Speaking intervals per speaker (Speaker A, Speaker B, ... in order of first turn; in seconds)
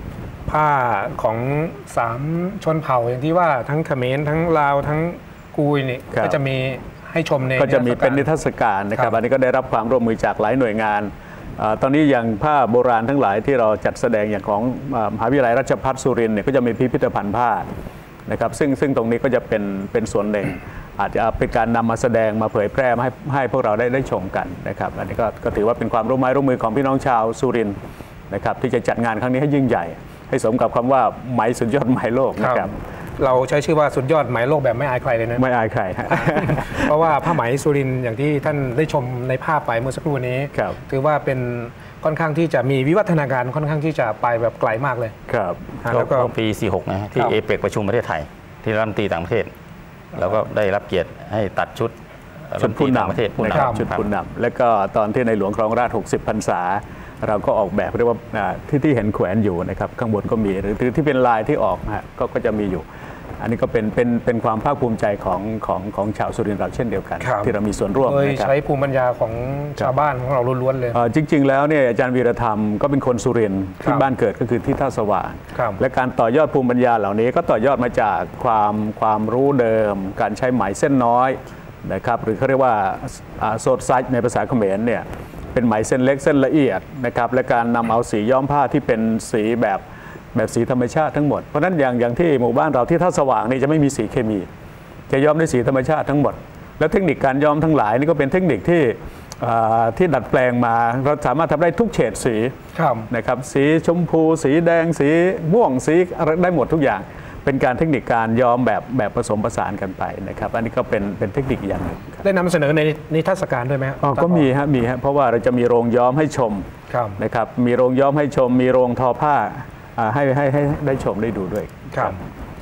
Speaker A: 0.5-8.2, 32.4-35.4, 36.1-45.1, 45.8-46.3, 53.5-53.9, 67.2-71.0, 75.5-75.8, 102.7-103.1, 112.2-114.5, 116.9-117.2, 121.9-122.2
Speaker B: 6.1-6.4, 7.6-17.6, 18.3-27.8, 28.3-32.7, 35.4-37.1, 45.3-45.8, 52.6-62.8, 63.4-68.5, 70.9-94.5, 95.1-102.5, 103.1-112.2, 114.0-116.7, 117.2-122.2
Speaker C: 45.9-49.5, 50.1-51.9, 52.5-54.0